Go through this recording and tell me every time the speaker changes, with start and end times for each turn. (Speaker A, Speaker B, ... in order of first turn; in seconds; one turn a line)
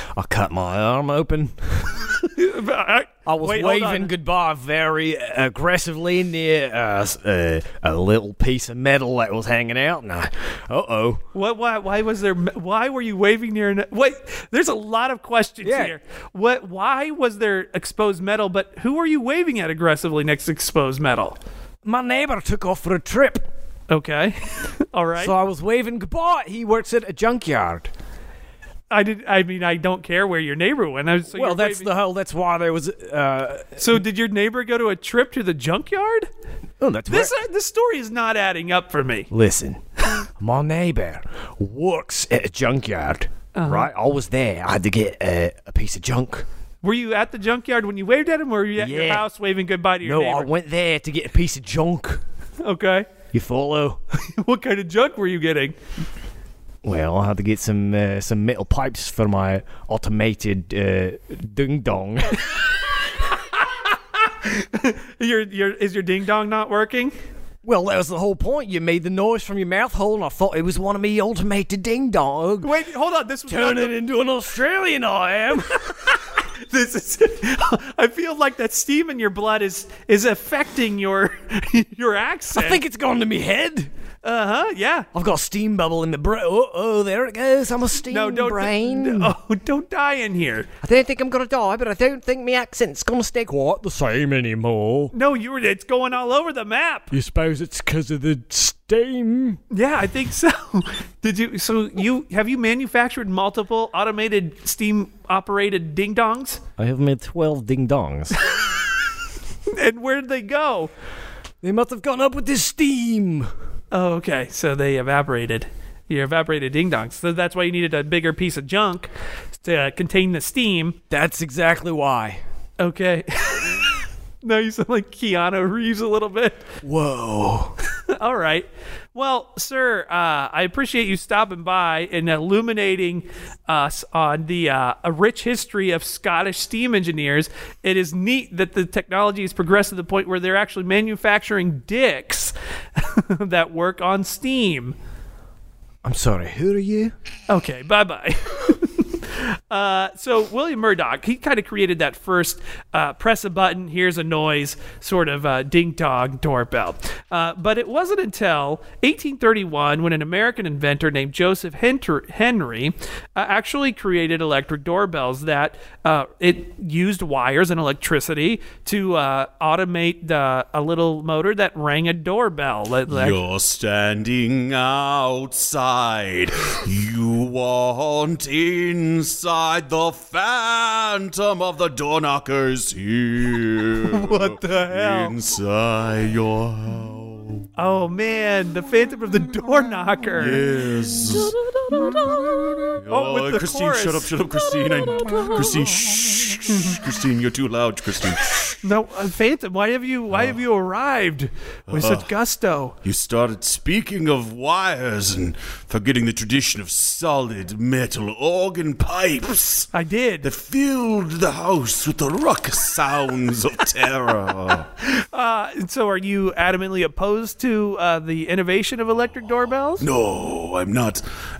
Speaker A: 0.1-1.9
Speaker B: 2.2-4.1
Speaker A: 3.2-11.2
Speaker B: 11.3-21.4
Speaker A: 15.6-15.9
Speaker A: 21.8-23.5
Speaker B: 23.9-25.3
Speaker A: 25.2-27.9
Speaker B: 28.9-31.9
Speaker A: 31.3-34.0
Speaker B: 33.8-36.3
Speaker A: 36.8-37.3
Speaker B: 37.1-39.3
Speaker A: 39.3-39.8
Speaker A: 40.4-46.5
Speaker B: 43.5-43.9
Speaker B: 46.8-50.5
Speaker A: 48.8-49.3
Speaker A: 50.0-52.2
Speaker B: 52.6-53.1
Speaker A: 53.3-54.0
Speaker B: 54.4-55.8
Speaker A: 56.8-62.5
Speaker B: 63.5-67.1
Speaker A: 67.6-72.7
Speaker B: 72.6-73.9
Speaker A: 73.5-75.9
Speaker B: 76.7-82.8
Speaker A: 82.5-83.9
Speaker B: 84.2-85.1
Speaker A: 85.1-89.3
Speaker B: 88.1-90.7
Speaker A: 90.8-95.1
Speaker B: 95.1-97.1
Speaker A: 97.1-99.6
Speaker B: 99.7-106.6
Speaker A: 106.8-108.3
Speaker B: 109.7-110.9
Speaker A: 111.6-113.5
Speaker B: 113.9-121.0
Speaker A: 121.1-122.4
Speaker B: 122.8-126.6
Speaker A: 126.8-127.7
Speaker B: 128.1-144.9
Speaker A: 146.0-147.1
Speaker B: 147.5-173.4
Speaker C: 173.1-187.6
Speaker B: 184.1-185.3
Speaker B: 187.8-190.6
Speaker C: 190.4-191.6
Speaker C: 192.8-198.8
Speaker B: 193.1-194.3
Speaker B: 196.7-197.0
Speaker B: 198.8-202.9
Speaker C: 200.3-200.6
Speaker C: 201.9-202.3
Speaker C: 203.0-209.9
Speaker B: 209.9-210.5
Speaker C: 210.4-214.9
Speaker B: 215.0-220.0
Speaker C: 220.0-221.2